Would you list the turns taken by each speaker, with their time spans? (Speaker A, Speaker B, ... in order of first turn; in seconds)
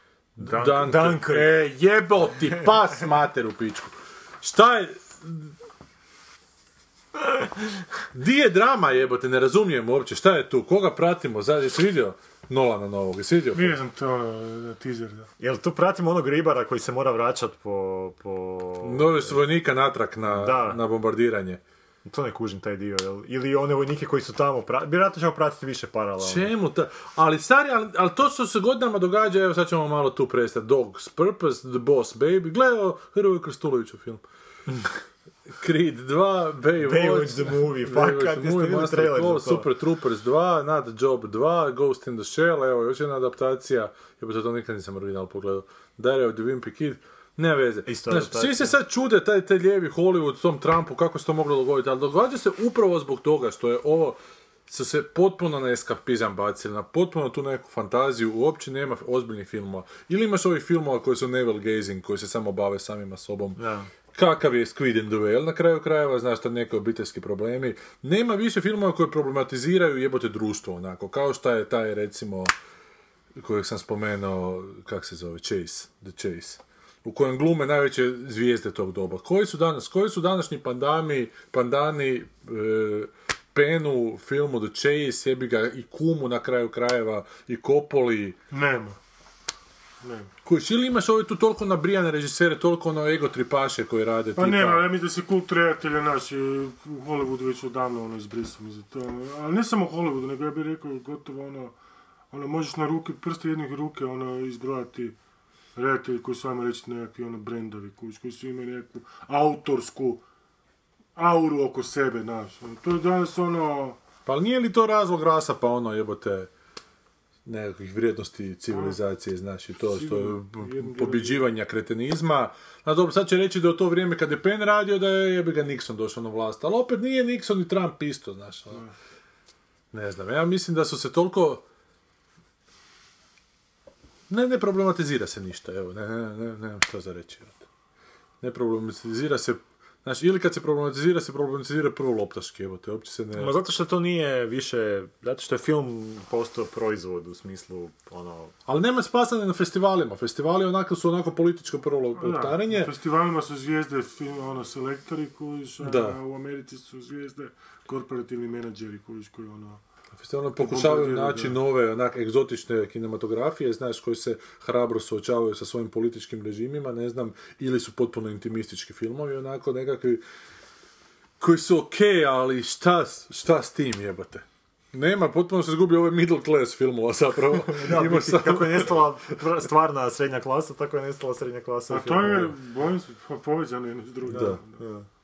Speaker A: 0.4-1.6, 15.4-19.4, 20.2-20.8, 22.0-26.5, 36.8-39.7, 47.9-48.8, 63.6-63.9, 143.3-148.5, 177.6-182.5, 184.3-185.1
Speaker B: 0.4-5.5, 8.1-13.8, 18.8-21.6, 26.2-34.2, 35.5-63.6, 64.1-72.5, 73.3-88.4, 90.4-94.9, 114.2-116.5, 117.5-128.8, 129.9-131.6, 134.3-137.6, 138.4-143.6, 148.7-152.9, 155.8-156.2, 160.1-170.2, 171.4-179.1, 184.3-184.6
Speaker C: 13.5-15.3, 88.5-89.0, 90.0-90.3, 94.3-101.7, 102.3-105.2, 105.8-110.2, 111.2-114.0, 118.7-119.0, 119.8-121.4, 152.2-159.8, 160.6-161.6, 181.9-184.8